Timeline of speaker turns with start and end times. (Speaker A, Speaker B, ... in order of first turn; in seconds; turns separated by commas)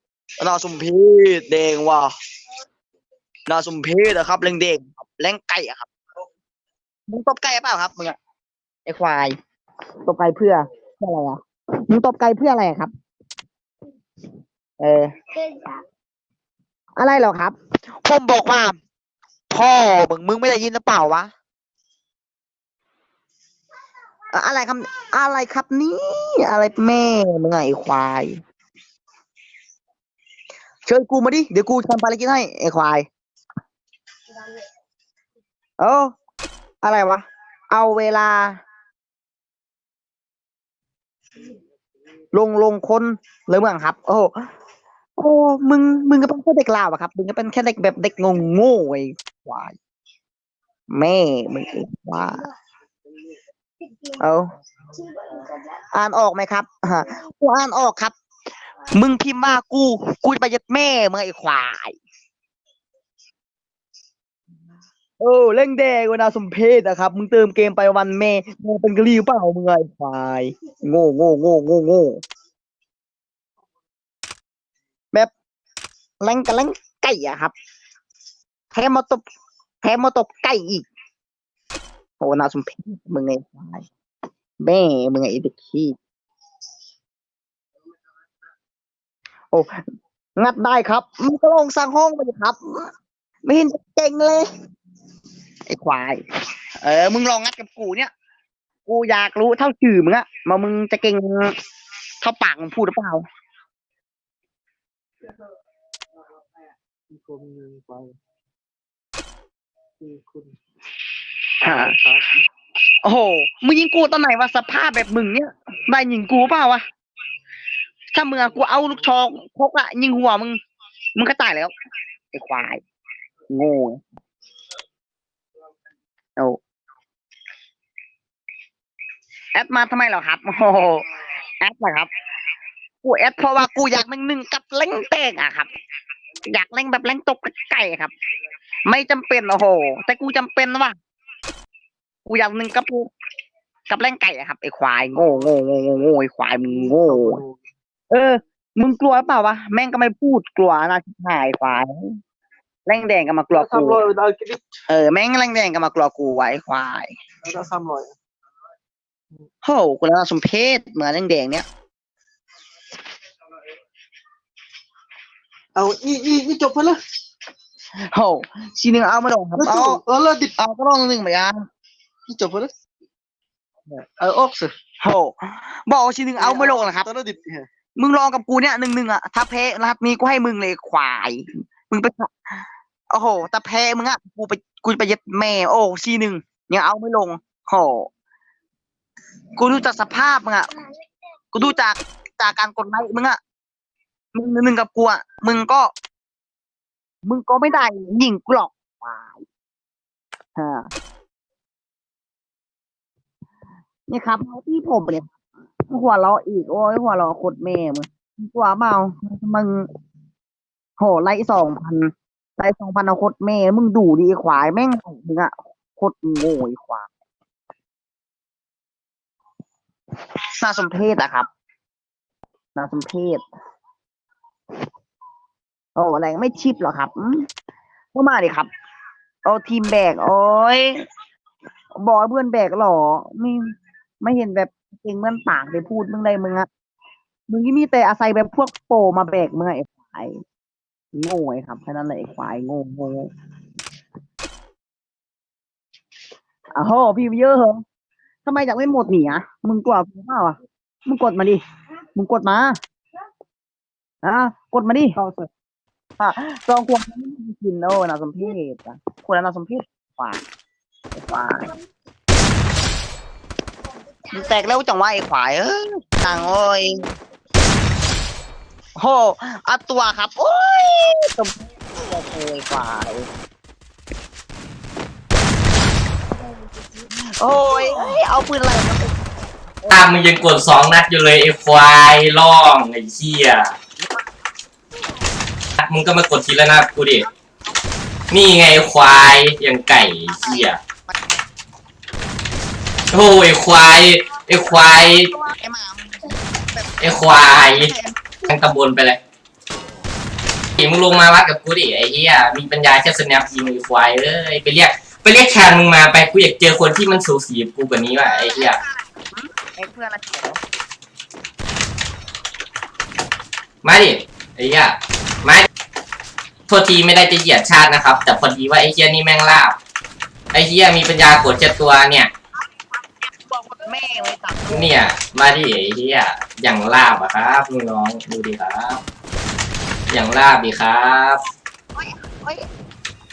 Speaker A: 0.4-2.1, Speaker A: 3.5-5.9, Speaker A: 7.1-8.2, Speaker A: 8.9-9.3, Speaker A: 10.1-12.9, Speaker A: 14.8-15.1, Speaker A: 17.0-18.8, Speaker A: 19.5-21.3, Speaker A: 24.3-28.4, Speaker A: 30.9-33.1, Speaker A: 35.8-36.1, Speaker A: 36.8-38.6, Speaker A: 42.3-44.3, Speaker A: 45.2-49.8, Speaker A: 50.9-52.4, Speaker A: 54.1-54.5, Speaker A: 55.9-58.1, Speaker A: 58.9-62.0, Speaker A: 65.2-72.2, Speaker A: 76.2-77.5, Speaker A: 78.7-79.2, Speaker A: 79.8-80.9, Speaker A: 82.2-83.9, Speaker A: 84.6-86.0, Speaker A: 90.4-92.9, Speaker A: 93.5-94.5, Speaker A: 95.7-96.2, Speaker A: 96.8-98.1, Speaker A: 98.9-101.5, Speaker A: 102.2-103.2, Speaker B: 107.1-108.2, Speaker B: 110.0-110.5, Speaker B: 111.6-112.3, Speaker A: 111.6-111.9, Speaker A: 113.0-116.8, Speaker A: 118.1-120.6, Speaker B: 118.6-119.0, Speaker A: 121.2-121.7, Speaker A: 122.3-122.8, Speaker A: 123.5-124.0, Speaker A: 129.6-131.0, Speaker A: 131.6-132.1, Speaker A: 133.0-135.7, Speaker A: 136.5-138.1, Speaker A: 138.9-140.9, Speaker A: 142.3-143.1, Speaker A: 143.9-147.4, Speaker B: 146.7-147.6, Speaker A: 148.1-152.2, Speaker A: 152.9-154.0, Speaker B: 153.5-154.8, Speaker A: 154.9-157.1, Speaker B: 157.4-158.2, Speaker A: 159.6-161.7, Speaker B: 165.8-167.0, Speaker A: 168.1-170.0, Speaker B: 169.6-170.5, Speaker A: 170.6-171.6, Speaker B: 172.3-172.7, Speaker B: 174.0-174.7, Speaker A: 175.0-175.4, Speaker A: 175.9-177.1, Speaker B: 176.4-177.7, Speaker A: 178.0-182.3, Speaker A: 183.1-188.1, Speaker A: 189.6-190.7, Speaker A: 191.5-193.4, Speaker A: 194.3-195.9, Speaker A: 197.2-199.4, Speaker A: 200.6-200.9, Speaker A: 204.1-205.3, Speaker A: 205.9-209.8, Speaker A: 211.0-217.1, Speaker A: 220.6-221.5, Speaker A: 222.8-223.4, Speaker A: 226.0-227.5, Speaker A: 228.1-228.7, Speaker A: 229.4-231.0, Speaker A: 232.0-233.6, Speaker A: 234.2-236.7, Speaker A: 237.5-240.4, Speaker A: 241.2-243.3, Speaker A: 246.8-247.8, Speaker A: 248.4-251.6, Speaker A: 252.2-252.8, Speaker A: 254.2-255.2, Speaker B: 255.2-255.5, Speaker A: 256.2-260.4, Speaker A: 261.1-261.7, Speaker A: 264.3-267.0, Speaker A: 269.0-273.3, Speaker A: 277.3-279.3, Speaker A: 279.8-280.1, Speaker C: 279.9-283.7, Speaker C: 285.8-287.3, Speaker C: 288.3-290.8, Speaker C: 293.1-295.3, Speaker A: 295.1-298.2, Speaker C: 297.0-297.9, Speaker C: 298.4-299.2, Speaker C: 300.8-308.8, Speaker A: 308.2-310.6, Speaker C: 313.8-315.7, Speaker C: 316.7-319.8, Speaker C: 320.5-322.3, Speaker A: 323.4-324.9, Speaker C: 324.7-329.0, Speaker C: 330.1-331.4, Speaker A: 331.9-332.7